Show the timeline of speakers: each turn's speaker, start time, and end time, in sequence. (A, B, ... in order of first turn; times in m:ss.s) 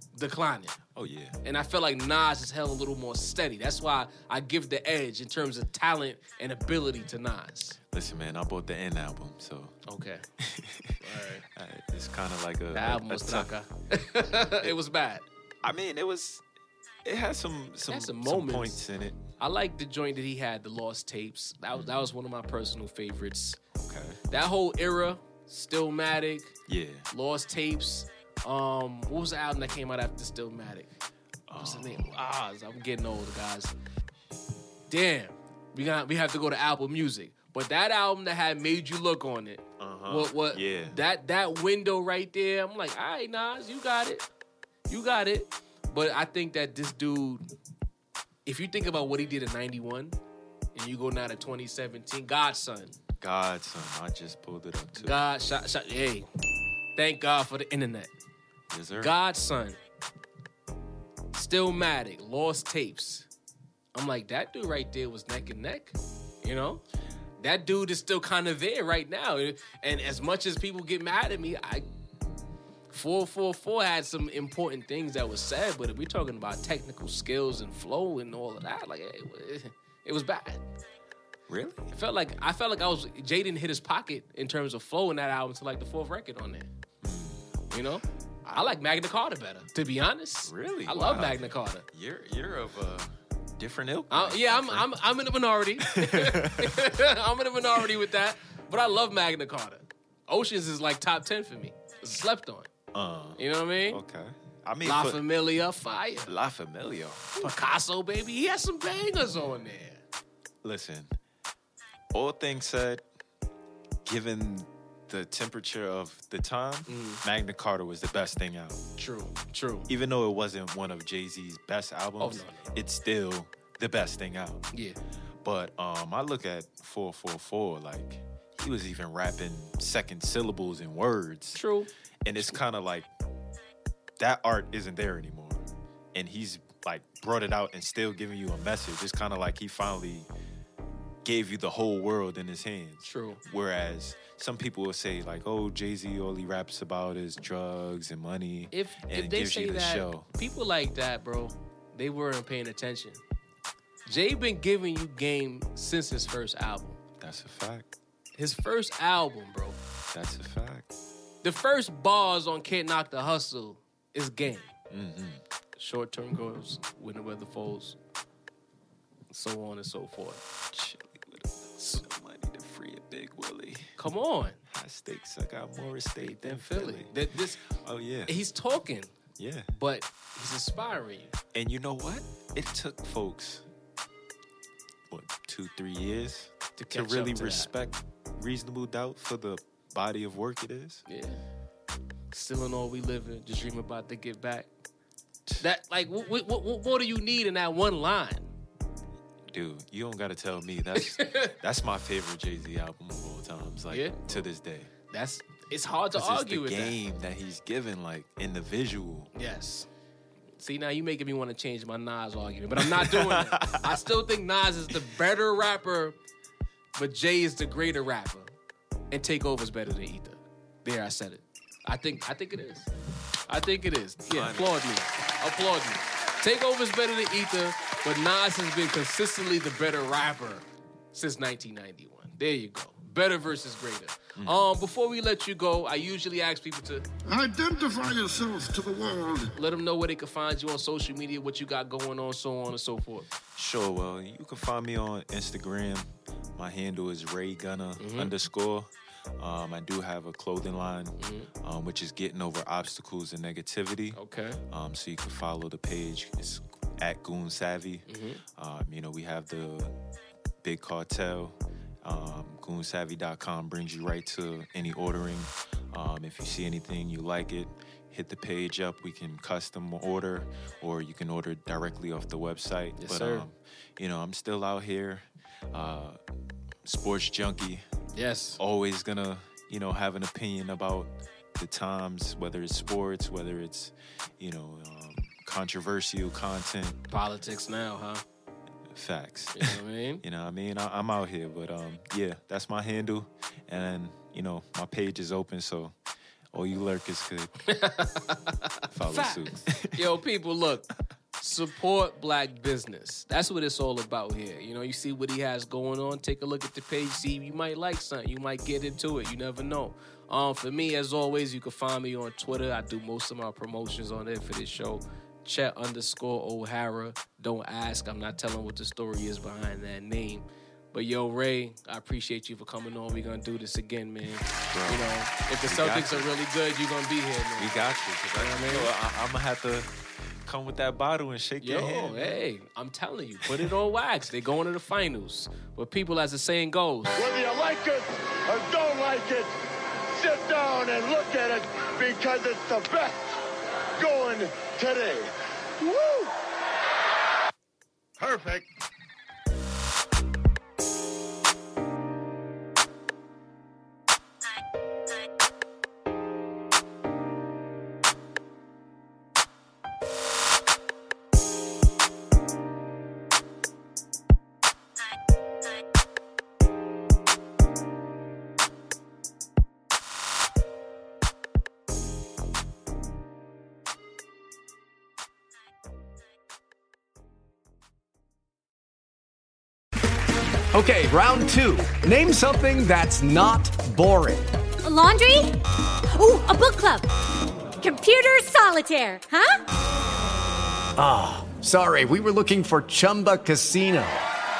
0:00.2-0:00.8 A
0:01.0-0:01.4 B
0:01.4-0:07.8 A
0:07.9-0:09.8 B
0:09.9-0:10.2 A
0:10.4-0:13.5 B
0:11.0-0:11.4 A
0:12.7-0:15.2 A
0:15.6-0:16.4 B
0:17.0-0:19.3 B
0:17.9-0:18.8 A
0:19.4-0:23.6 A
0:21.7-0:22.0 B
0:23.8-0:24.2 B
0:24.3-0:26.6 A
0:26.7-0:27.1 B
0:27.1-0:30.9 A
0:31.5-0:32.2 B
0:31.6-0:33.8 A
0:34.9-0:44.3 A
0:39.8-0:41.0 B
0:44.9-0:47.5 A
0:48.5-0:50.2 A
0:50.8-0:53.0 A
0:53.2-0:55.2 B
0:55.0-0:56.3 A
0:57.0-0:58.1 A
0:58.7-0:59.2 B
0:59.0-0:59.8 A
1:01.3-1:03.3 A
1:04.0-1:06.8 A
1:07.4-1:11.9 A
1:12.9-1:20.6 A
1:21.5-1:21.8 B
1:21.9-1:26.7 A
1:27.0-1:27.5 B
1:27.7-1:31.8 A
1:28.4-1:28.7 B
1:30.4-1:34.9 B
1:34.1-1:42.7 A
1:35.8-1:36.9 B
1:42.9-1:45.2 B
1:43.4-1:44.0 A
1:44.8-1:46.3 A
1:46.3-1:47.5 B
1:47.4-1:50.0 A
1:50.6-1:51.2 B
1:52.1-1:53.0 B
1:54.0-1:58.8 B
1:56.9-1:57.2 A
1:59.0-1:59.9 A
1:59.9-2:04.6 B
2:02.2-2:02.6 A
2:04.7-2:05.0 A
2:05.4-2:11.6 B
2:11.5-2:12.6 A
2:12.2-2:13.1 B
2:14.2-2:15.6 B
2:16.1-2:20.3 B
2:21.2-2:30.3 B
2:23.0-2:23.4 A
2:28.7-2:33.2 A
2:34.1-2:37.0 A
2:37.2-2:37.9 B
2:38.4-2:39.8 A
2:40.1-2:40.9 B
2:41.4-2:44.7 A
2:44.9-2:45.4 B
2:45.8-2:48.0 A
2:49.3-2:50.4 A
2:50.7-2:54.0 B
2:51.8-2:52.0 A
2:54.0-2:54.6 A
2:54.7-2:57.1 B
2:56.2-2:57.6 A
2:57.7-2:58.3 B
2:58.3-2:59.1 A
2:59.4-2:59.7 B
2:59.7-3:01.4 A
3:01.5-3:03.6 B
3:05.1-3:11.0 B
3:06.8-3:07.7 A
3:11.1-3:11.4 A
3:12.3-3:14.7 A
3:15.6-3:18.5 A
3:19.5-3:24.9 B
3:21.0-3:21.6 A
3:23.9-3:24.5 A
3:25.1-3:27.0 A
3:26.1-3:29.3 B
3:29.3-3:29.9 A
3:30.6-3:36.2 A
3:32.8-3:34.0 B
3:37.0-3:38.5 A
3:39.1-3:42.9 A
3:43.5-3:57.1 A
3:44.3-3:44.8 B
3:54.4-3:54.6 B
3:57.3-3:59.3 C
3:59.4-4:03.3 A
4:03.6-4:14.2 B
4:08.0-4:08.3 A
4:11.2-4:11.5 A
4:14.2-4:14.6 A
4:14.7-4:20.0 B
4:18.1-4:18.4 A
4:20.6-4:36.2 B
4:33.0-4:33.5 A
4:36.8-4:37.8 B
4:38.1-4:38.6 A
4:38.6-4:47.0 B
4:47.1-4:48.2 A
4:48.9-4:56.0 B
4:49.6-4:50.2 A
4:56.5-4:57.6 B
4:57.7-5:28.9 A
4:58.9-5:00.0 B
5:24.7-5:25.1 B
5:25.6-5:26.3 B
5:27.6-5:29.9 B
5:30.4-5:32.4 B
5:31.6-5:37.3 A
5:33.5-5:33.7 B
5:37.2-5:39.5 D
5:40.1-5:43.4 D
5:44.0-5:46.4 D
5:48.2-5:48.7 D
6:20.7-6:24.5 E
6:24.8-6:27.1 F
6:27.8-6:29.6 F
6:31.0-6:34.2 E